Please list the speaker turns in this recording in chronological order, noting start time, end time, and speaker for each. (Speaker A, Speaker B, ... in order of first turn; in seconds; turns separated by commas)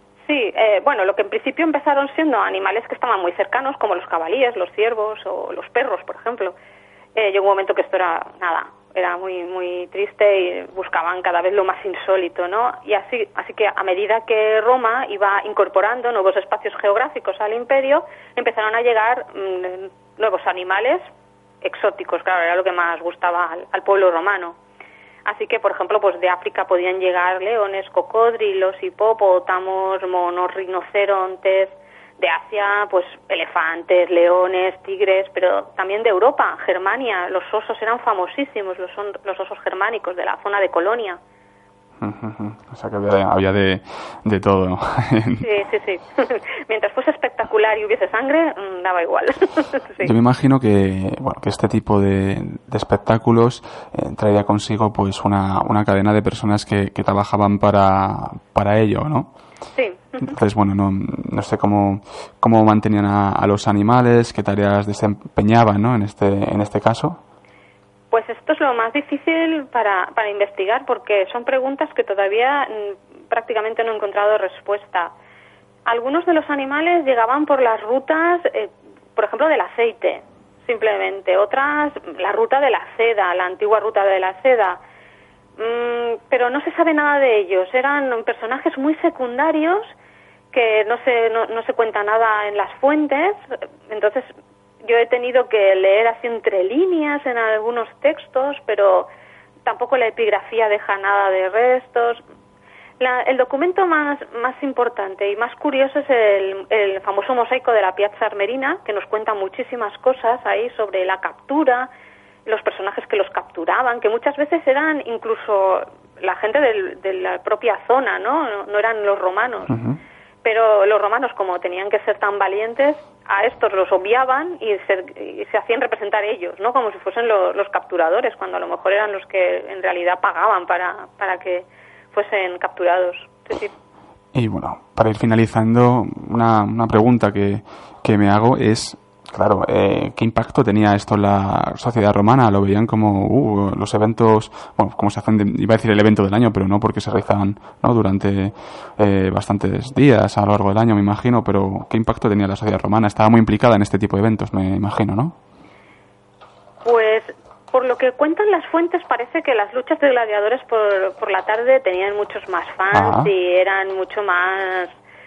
Speaker A: 0.3-6.5, Speaker A: 7.1-21.1, Speaker A: 21.6-24.6, Speaker A: 25.2-41.2, Speaker B: 42.0-45.5, Speaker A: 45.4-50.1, Speaker B: 50.0-59.3, Speaker A: 59.8-60.3, Speaker B: 60.2-67.2, Speaker A: 68.1-75.1, Speaker A: 75.8-84.8, Speaker A: 85.6-89.9, Speaker A: 90.5-94.3, Speaker A: 94.8-99.1, Speaker A: 99.6-102.2, Speaker A: 103.0-111.9, Speaker A: 112.5-119.8, Speaker B: 119.7-120.0, Speaker A: 120.4-133.7, Speaker B: 134.3-155.4, Speaker A: 156.8-164.9, Speaker B: 162.9-163.3